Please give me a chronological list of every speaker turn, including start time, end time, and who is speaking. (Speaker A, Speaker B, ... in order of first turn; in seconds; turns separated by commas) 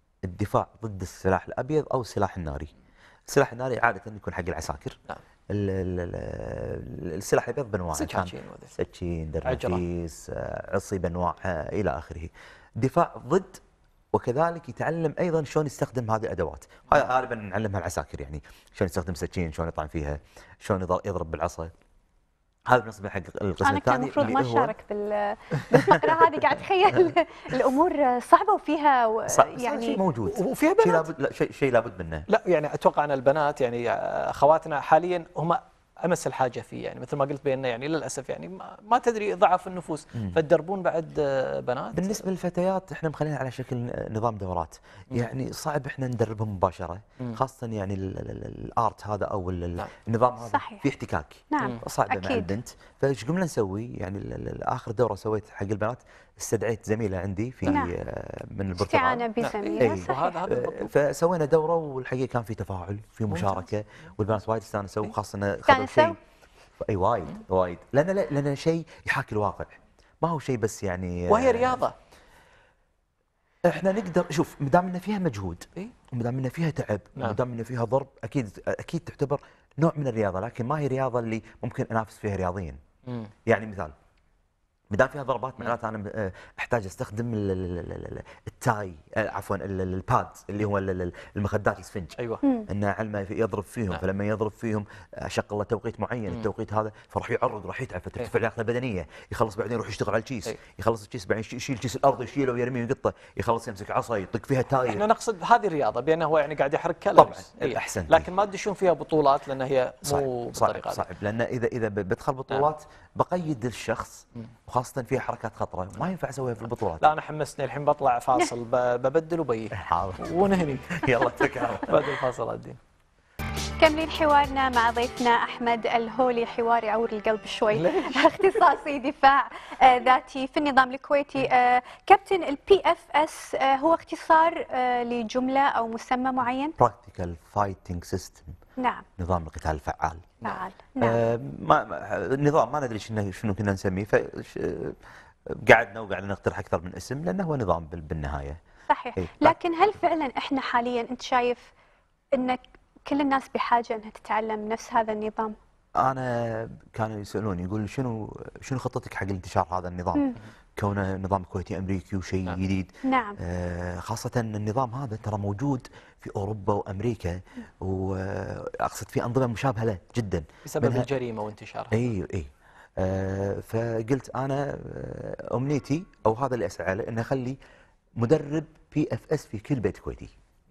Speaker A: 0.2-2.7, Speaker A: 3.3-5.0, Speaker A: 5.5-13.6, Speaker B: 7.9-8.7, Speaker B: 9.4-9.8, Speaker A: 14.1-21.7, Speaker A: 22.7-24.7, Speaker C: 23.6-30.0, Speaker A: 25.8-26.3, Speaker A: 29.3-32.3, Speaker B: 30.3-31.1, Speaker B: 32.3-42.2, Speaker A: 40.1-40.4, Speaker A: 41.9-66.2, Speaker C: 50.4-50.9, Speaker C: 51.5-52.5, Speaker C: 57.7-57.9, Speaker C: 58.8-60.4, Speaker B: 59.4-60.9, Speaker B: 63.3-63.7, Speaker C: 65.7-66.2, Speaker A: 66.8-71.8, Speaker B: 71.3-72.0, Speaker A: 73.6-82.8, Speaker B: 83.1-83.3, Speaker A: 83.5-83.9, Speaker A: 84.9-105.0, Speaker B: 92.2-92.4, Speaker C: 92.4-92.7, Speaker B: 104.9-111.0, Speaker A: 107.2-108.3, Speaker A: 110.0-117.1, Speaker B: 117.0-122.8, Speaker A: 119.8-120.4, Speaker A: 120.9-122.1, Speaker C: 123.8-136.8, Speaker B: 127.7-128.4, Speaker A: 136.8-138.6, Speaker C: 138.8-139.1, Speaker A: 139.2-140.3, Speaker C: 140.4-141.2, Speaker A: 141.0-145.0, Speaker A: 145.6-148.6, Speaker C: 148.9-151.7, Speaker A: 149.2-149.6, Speaker C: 152.3-155.6, Speaker A: 156.0-171.1, Speaker C: 163.0-163.4, Speaker B: 170.7-172.1, Speaker A: 171.9-177.6, Speaker A: 178.2-180.3